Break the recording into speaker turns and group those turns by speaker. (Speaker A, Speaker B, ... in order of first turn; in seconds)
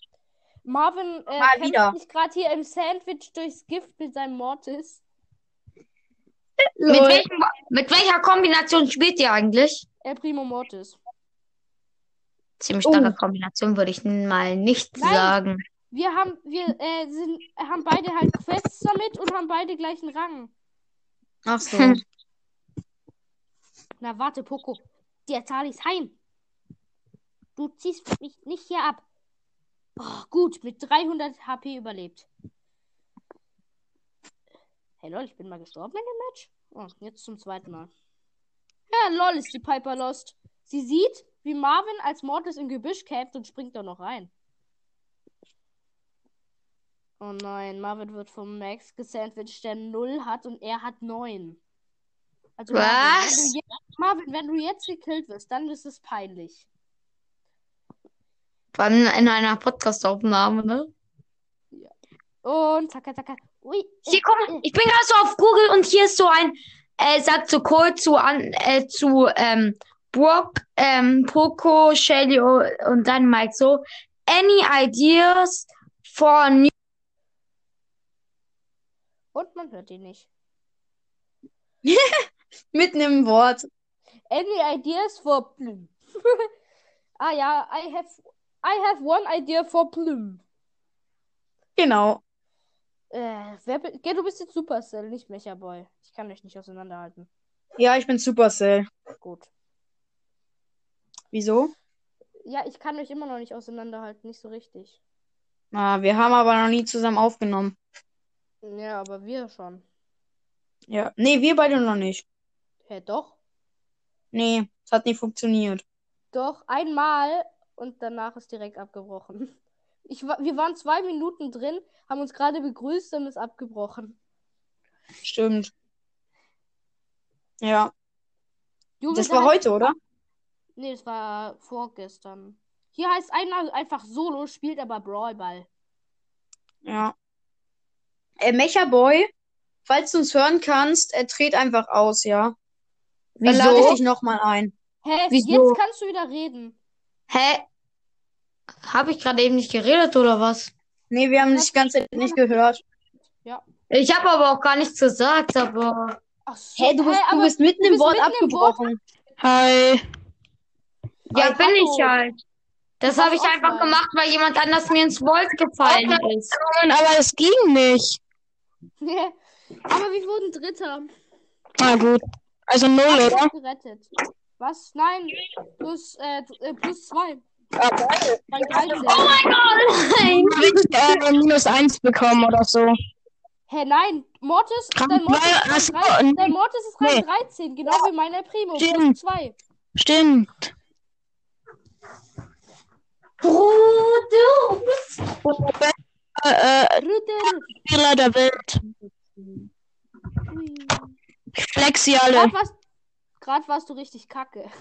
Speaker A: 0.6-5.0, 10.0-11.0, 15.0-15.4, 15.9-20.5, 24.0-26.1, 27.6-29.0, 30.0-32.3, 35.0-37.9, 38.9-44.3, 47.2-51.6, 52.6-56.6, 62.4-64.6, 79.3-80.3, 84.3-86.5, 87.2-90.4, 93.1-97.3, 99.2-99.5, 102.4-105.0, 108.6-109.8, 112.9-113.3, 116.3-119.5, 120.1-124.2, 129.0-129.9, 130.8-135.7, 143.7-144.0, 145.0-146.8, 151.5-152.6, 156.5-158.8, 161.6-162.1, 163.1-164.0, 169.0-169.3, 169.9-171.1, 173.1-177.4, 178.5-179.3, 183.7-189.6, 197.0-197.7, 200.5-201.1, 202.3-202.8, 203.4-204.7
Speaker B: 1.4-1.9, 6.8-7.2, 12.8-13.2, 21.4-22.0, 81.8-83.7, 91.8-92.2, 97.8-98.9, 101.3-101.7, 105.7-107.7, 110.9-112.2, 114.3-115.8, 125.2-125.7, 127.6-127.9, 129.1-129.9, 136.9-137.1, 138.4-139.3, 139.9-142.5, 143.4-144.7, 145.3-145.8, 151.1-152.8, 156.8-159.0, 161.4-161.6
Speaker C: 6.9-9.8, 12.6-15.6, 21.7-22.0, 52.7-53.5, 58.7-60.9, 64.1-76.7, 143.4-144.0, 147.3-147.6, 148.8-150.7, 153.9-156.2, 161.3-162.3, 163.0-166.5, 178.6-181.2, 193.4-195.1
Speaker D: 159.4-160.0, 165.9-168.2, 171.8-173.5, 177.8-178.4, 180.3-182.9, 184.9-187.2, 188.8-189.2, 190.0-190.7, 195.4-198.8, 201.6-202.5